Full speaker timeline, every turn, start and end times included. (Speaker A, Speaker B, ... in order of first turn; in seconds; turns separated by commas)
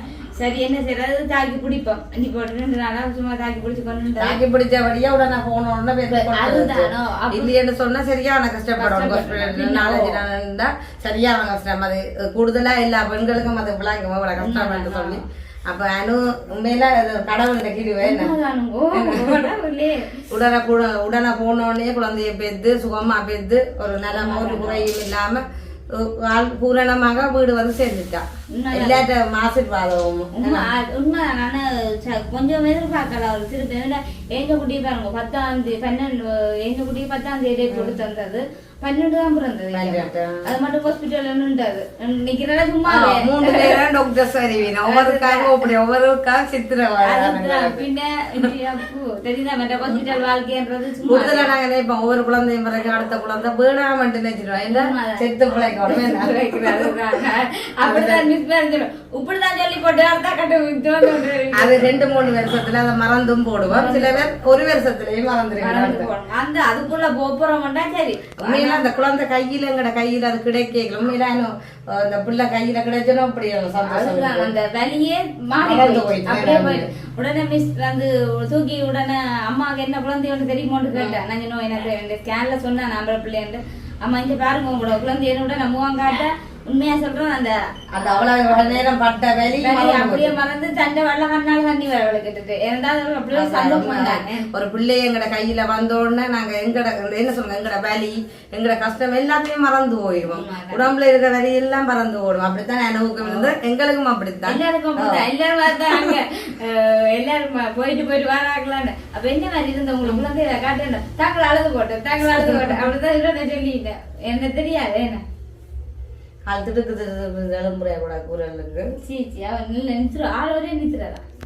Speaker A: 0.4-4.4, Speaker B: 4.2-18.3, Speaker A: 6.1-7.5, Speaker A: 8.8-10.2, Speaker A: 14.4-15.2, Speaker A: 18.0-20.2, Speaker B: 18.9-19.5, Speaker B: 20.3-30.7, Speaker A: 24.1-24.9, Speaker A: 28.5-29.1, Speaker A: 30.4-43.8, Speaker B: 37.7-38.0, Speaker B: 39.7-40.5, Speaker B: 42.9-47.8, Speaker A: 44.9-45.6, Speaker A: 47.0-51.5, Speaker B: 51.1-56.9, Speaker A: 54.7-62.0, Speaker B: 57.8-58.3, Speaker B: 61.5-66.1, Speaker A: 63.7-64.3, Speaker A: 65.6-68.8, Speaker B: 68.4-74.5, Speaker A: 73.8-88.9, Speaker B: 75.6-76.9, Speaker B: 80.9-81.2, Speaker B: 87.9-90.3, Speaker A: 89.6-94.5, Speaker B: 93.3-105.3, Speaker A: 100.3-100.9, Speaker A: 103.2-103.5, Speaker A: 104.5-115.2, Speaker B: 105.8-106.2, Speaker B: 112.4-112.8, Speaker B: 116.5-118.9, Speaker A: 119.0-121.2